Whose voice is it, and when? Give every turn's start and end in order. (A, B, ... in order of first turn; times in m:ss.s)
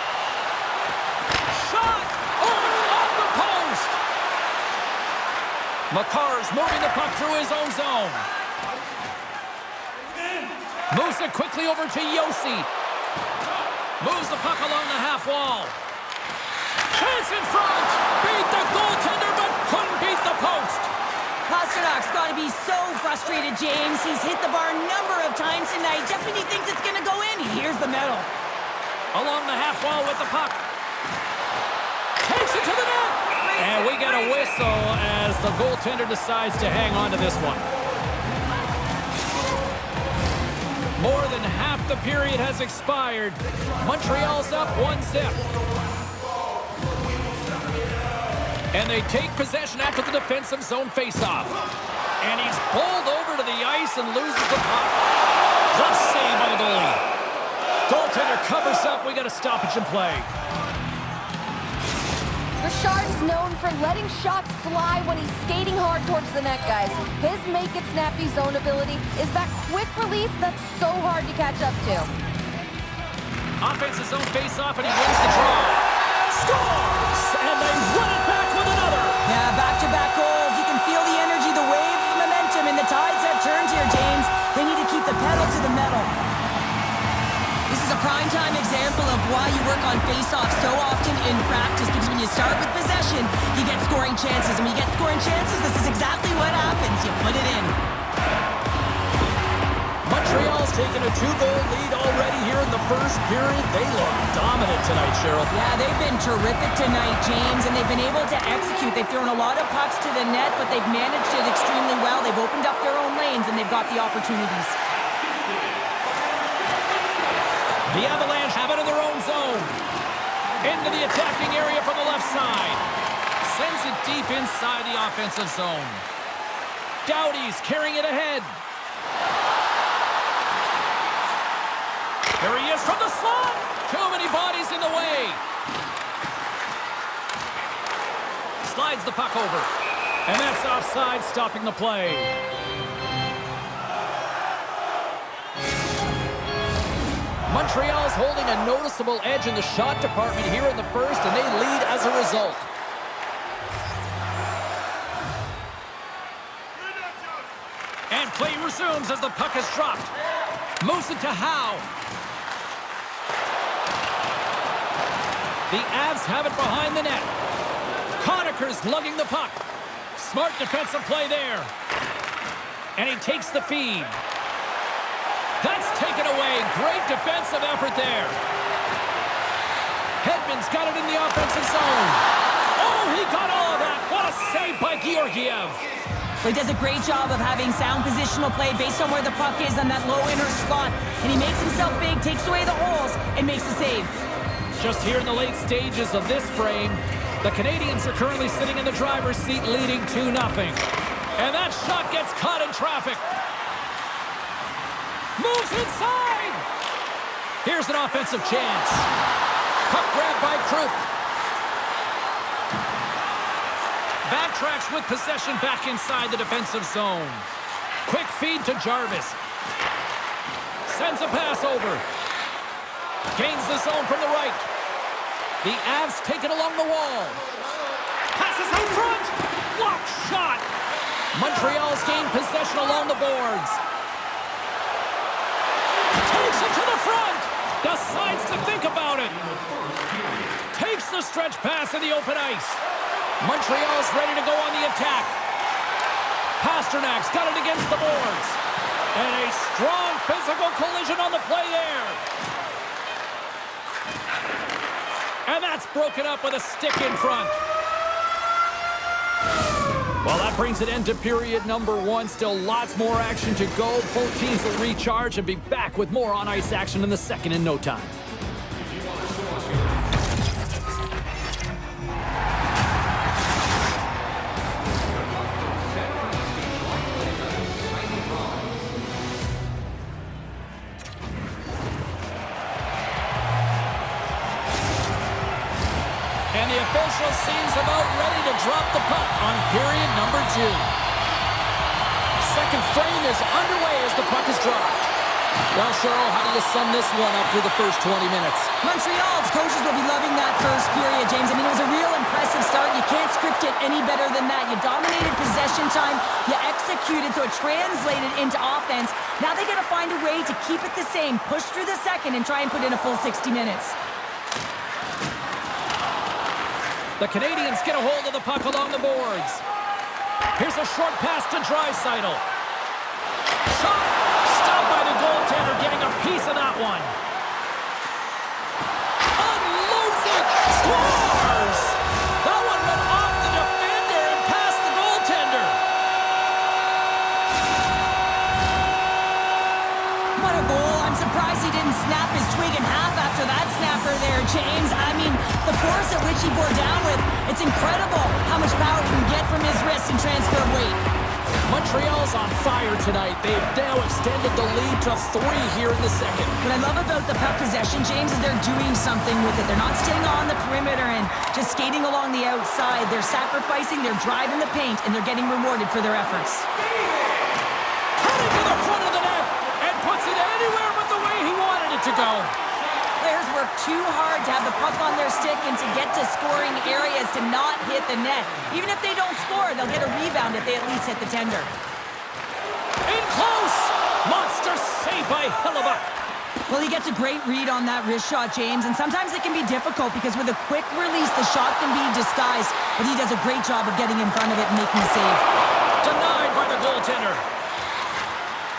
0:01.5-0:04.0 A
0:05.9-0:08.2 A
0:10.9-0:12.7 A
0:14.0-0:15.8 A
0:16.9-0:20.9 A
0:21.5-0:28.3 B
0:29.1-0:30.6 A
0:32.2-0:37.6 A
0:41.0-0:45.5 A
0:48.7-0:51.5 A
0:52.2-0:55.0 A
0:55.7-0:57.0 A
0:57.9-1:00.3 A
1:02.6-1:12.1 C
1:13.6-1:19.2 A
1:19.2-1:26.1 B
1:27.7-1:37.8 B
1:40.0-1:45.5 A
1:45.5-1:54.8 B
1:57.9-1:59.8 A
2:00.6-2:02.8 A
2:03.4-2:06.0 A
2:07.0-2:08.5 A
2:12.4-2:15.4 A
2:18.6-2:19.7 A
2:20.2-2:22.3 A
2:27.5-2:32.7 A
2:38.1-2:40.1 A
2:40.8-2:41.9 A
2:45.7-2:47.3 A
2:48.2-2:49.6 A
2:50.2-2:51.7 A
2:53.0-2:54.2 A
2:55.6-2:58.4 A
3:00.2-3:02.2 A
3:02.8-3:05.8 A
3:06.4-3:14.2 B
3:14.7-3:20.8 A
3:21.4-3:23.2 A
3:25.4-3:26.6 A
3:27.6-3:29.1 A
3:29.9-3:31.0 A
3:34.2-3:37.4 A
3:38.1-3:39.4 A
3:40.8-3:42.0 A
3:43.3-3:44.7 A
3:45.6-3:47.4 A
3:48.3-3:50.7 A
3:51.3-3:53.8 A
3:56.2-3:59.4 A
4:00.7-4:02.8 A
4:03.4-4:05.4 A
4:06.6-4:08.6 A
4:09.1-4:12.2 A
4:15.4-4:17.6 A
4:20.2-4:28.2 A
4:46.5-4:50.9 A
4:52.4-4:55.1 A
4:55.7-4:58.7 A
4:58.8-5:14.0 B
5:17.2-5:19.6 A
5:20.6-5:22.4 A
5:23.7-5:27.1 A
5:29.4-5:35.8 A
5:40.4-5:51.0 B
5:51.6-5:56.5 A
5:56.6-6:06.7 B
6:08.2-6:12.5 A
6:13.2-6:21.7 B
6:23.0-6:26.1 A
6:26.7-6:35.4 B
6:36.0-6:37.4 A